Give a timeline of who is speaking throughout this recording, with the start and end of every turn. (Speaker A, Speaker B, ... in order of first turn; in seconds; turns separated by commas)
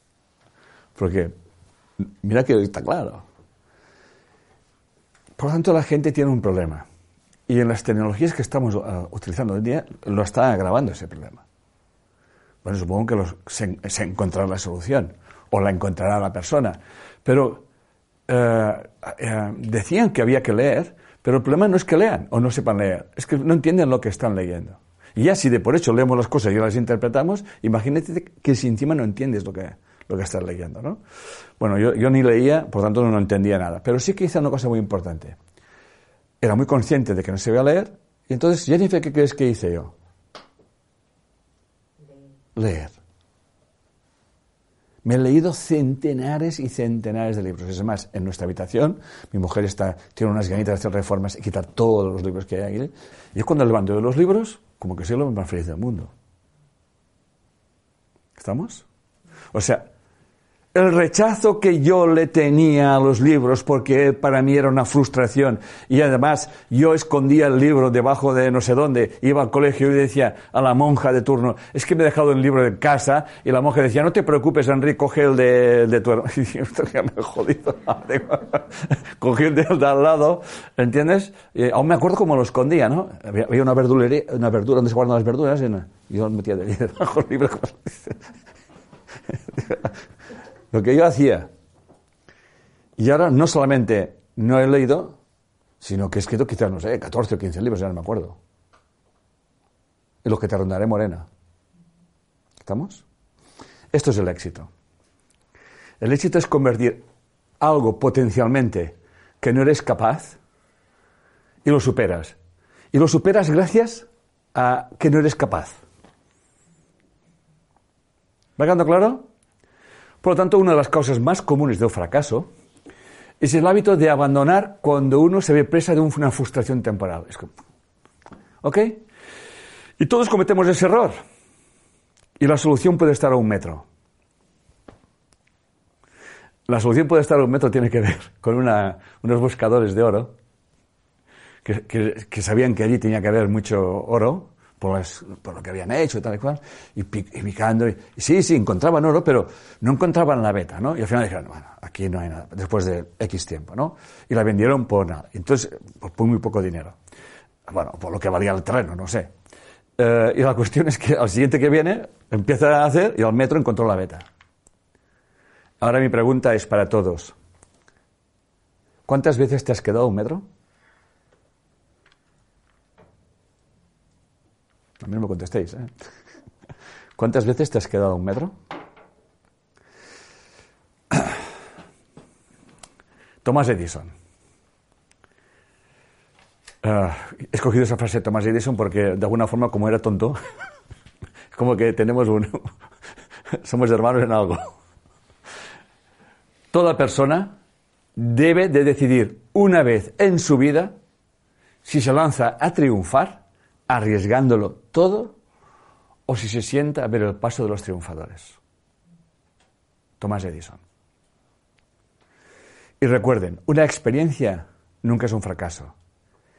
Speaker A: 1.0-1.3, Speaker A: 2.0-3.2, Speaker A: 5.4-6.8, Speaker A: 7.5-11.4, Speaker A: 12.6-17.6, Speaker A: 18.3-31.0, Speaker A: 31.6-35.4, Speaker A: 36.4-39.9, Speaker A: 42.5-43.0, Speaker A: 45.0-56.1, Speaker A: 58.4-58.9, Speaker A: 59.5-59.9, Speaker A: 60.7-88.2, Speaker A: 89.5-89.9, Speaker A: 90.7-91.5, Speaker A: 93.0-95.2, Speaker A: 95.8-98.4, Speaker A: 100.2-101.3, Speaker A: 102.6-103.0, Speaker A: 103.9-104.7, Speaker A: 106.0-107.0, Speaker A: 107.6-110.4, Speaker A: 111.6-112.4, Speaker A: 112.9-115.8, Speaker A: 118.6-119.3, Speaker A: 120.2-122.5, Speaker A: 123.4-127.5, Speaker A: 128.6-129.1, Speaker A: 130.0-131.2, Speaker A: 132.4-133.8, Speaker A: 136.7-140.3, Speaker A: 141.6-157.0, Speaker A: 157.7-159.3, Speaker A: 160.0-164.2, Speaker A: 165.8-167.3, Speaker A: 169.1-170.4, Speaker A: 175.0-175.9, Speaker A: 177.2-178.6, Speaker A: 183.4-184.1, Speaker A: 186.8-190.4, Speaker A: 191.5-192.7, Speaker A: 193.6-194.7, Speaker A: 196.7-197.6, Speaker A: 198.2-201.0, Speaker A: 201.8-205.4, Speaker A: 206.3-208.6, Speaker A: 210.2-210.8, Speaker A: 213.0-215.9